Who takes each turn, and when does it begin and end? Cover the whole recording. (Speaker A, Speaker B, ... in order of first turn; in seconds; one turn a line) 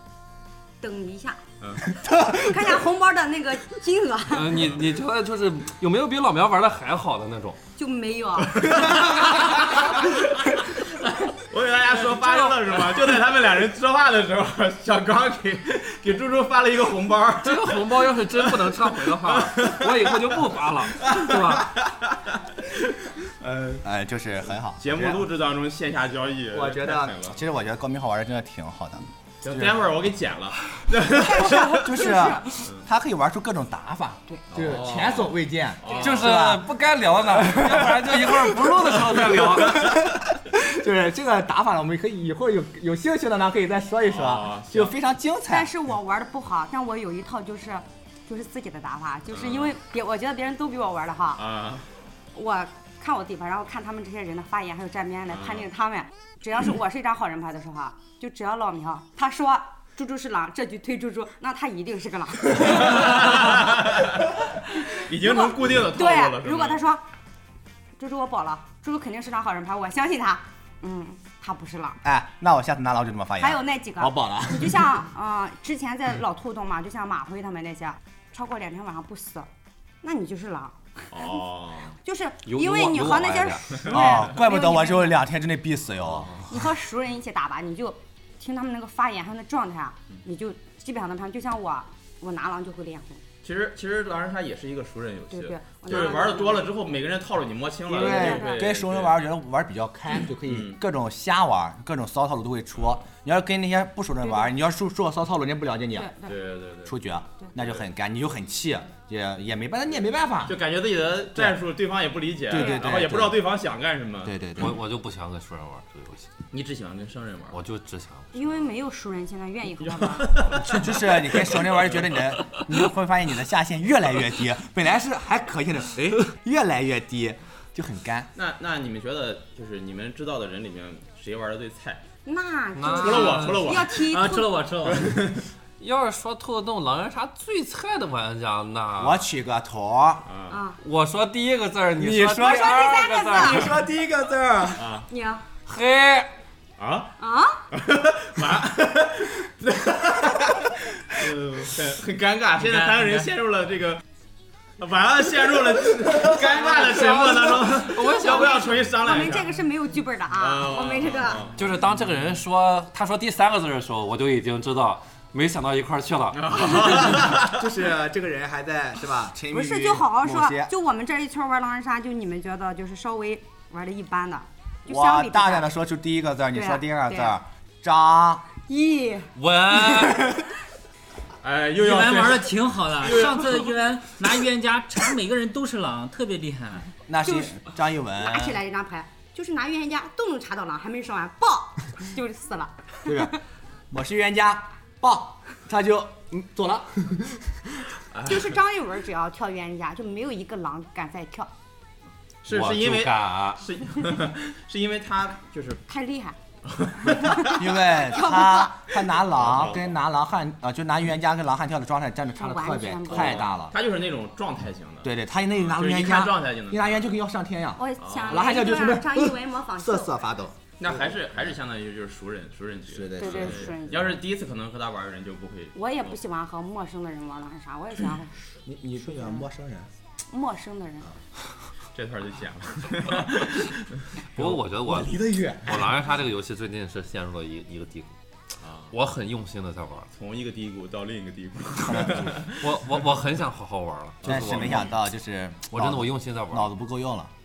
Speaker A: 0.8-1.4
Speaker B: 1.6-1.9
Speaker A: 2.1-4.7
Speaker C: 4.3-7.6
Speaker A: 7.8-8.9
Speaker B: 8.5-17.9
Speaker C: 8.9-9.5
Speaker C: 17.4-21.6
Speaker B: 18.9-20.1
Speaker B: 21.0-23.9
Speaker D: 23.8-25.3
Speaker B: 24.8-27.4
Speaker D: 26.5-29.8
Speaker B: 29.4-32.8
Speaker A: 31.1-32.5
Speaker D: 31.6-36.7
Speaker B: 34.5-36.4
Speaker C: 35.9-40.0
Speaker D: 37.3-45.7
Speaker B: 44.0-44.9
Speaker A: 45.5-51.4
Speaker B: 49.3-49.8
Speaker B: 51.4-51.9
Speaker A: 52.3-63.5
Speaker B: 55.3-55.6
Speaker B: 62.6-66.8
Speaker A: 65.0-67.0
Speaker A: 68.0-72.0
Speaker D: 72.0-75.0
Speaker A: 73.4-79.5
Speaker A: 80.0-81.4
Speaker B: 81.1-81.9
Speaker A: 82.0-85.2
Speaker C: 82.4-83.8
Speaker B: 83.8-84.1
Speaker D: 83.8-86.3
Speaker A: 86.5-93.2
Speaker B: 93.4-99.2
Speaker A: 95.3-96.7
Speaker D: 97.9-106.1
Speaker A: 98.0-98.6
Speaker B: 100.2-100.8
Speaker A: 104.2-104.5
Speaker A: 105.9-106.3
Speaker B: 106.2-107.0
Speaker D: 106.8-110.6
Speaker B: 107.5-107.8
Speaker B: 110.5-114.4
Speaker D: 112.5-113.4
Speaker A: 112.5-112.9
Speaker D: 114.2-114.8
Speaker C: 114.6-116.3
Speaker B: 116.5-117.6
Speaker C: 117.5-118.6
Speaker A: 118.3-120.5
Speaker B: 119.8-122.1
Speaker D: 120.5-128.3
Speaker B: 128.3-132.0
Speaker A: 132.2-134.6
Speaker C: 132.8-133.7
Speaker B: 132.9-134.0
Speaker E: 134.0-135.2
Speaker B: 134.8-135.4
Speaker C: 135.8-139.2
Speaker D: 139.0-140.3
Speaker B: 140.2-140.6
Speaker A: 140.5-140.8
Speaker C: 140.8-143.8
Speaker D: 142.0-144.9
Speaker A: 142.4-143.8
Speaker B: 144.8-145.1
Speaker A: 145.1-145.4
Speaker C: 145.7-146.3
Speaker B: 146.8-147.1
Speaker A: 147.2-147.6
Speaker B: 147.7-154.0
Speaker E: 152.6-153.3
Speaker B: 154.8-159.5
Speaker C: 156.7-158.7
Speaker A: 157.9-161.4
Speaker B: 160.4-161.6
Speaker C: 161.6-167.0
Speaker B: 166.3-167.6
Speaker D: 166.9-170.7
Speaker A: 169.5-175.7
Speaker D: 174.9-178.4
Speaker A: 176.5-177.3
Speaker A: 178.7-179.3
Speaker C: 179.3-180.4
Speaker B: 181.4-183.7
Speaker E: 181.8-186.9
Speaker D: 187.1-188.6
Speaker A: 187.2-187.6
Speaker A: 188.2-193.4
Speaker D: 193.0-193.3
Speaker D: 193.9-197.9
Speaker B: 198.1-198.6
Speaker A: 198.2-201.5
Speaker B: 202.4-205.8
Speaker C: 202.5-203.6
Speaker A: 205.9-206.3
Speaker B: 206.7-207.7
Speaker A: 207.1-208.8
Speaker D: 207.4-213.7
Speaker B: 209.2-209.9
Speaker A: 212.4-213.4
Speaker B: 213.1-217.1
Speaker D: 215.0-220.9
Speaker A: 217.8-220.2
Speaker B: 218.0-218.5
Speaker B: 220.8-226.2
Speaker D: 222.9-223.9
Speaker A: 223.2-224.1
Speaker A: 225.7-228.3
Speaker D: 228.7-229.9
Speaker A: 229.0-229.4
Speaker A: 230.3-231.1
Speaker B: 231.9-233.7
Speaker C: 234.3-238.1
Speaker D: 234.3-236.0
Speaker B: 238.6-238.9
Speaker C: 238.9-240.1
Speaker B: 240.1-242.7
Speaker D: 241.8-242.5
Speaker C: 242.5-244.9
Speaker B: 244.2-244.9
Speaker D: 244.2-247.3
Speaker C: 245.7-246.7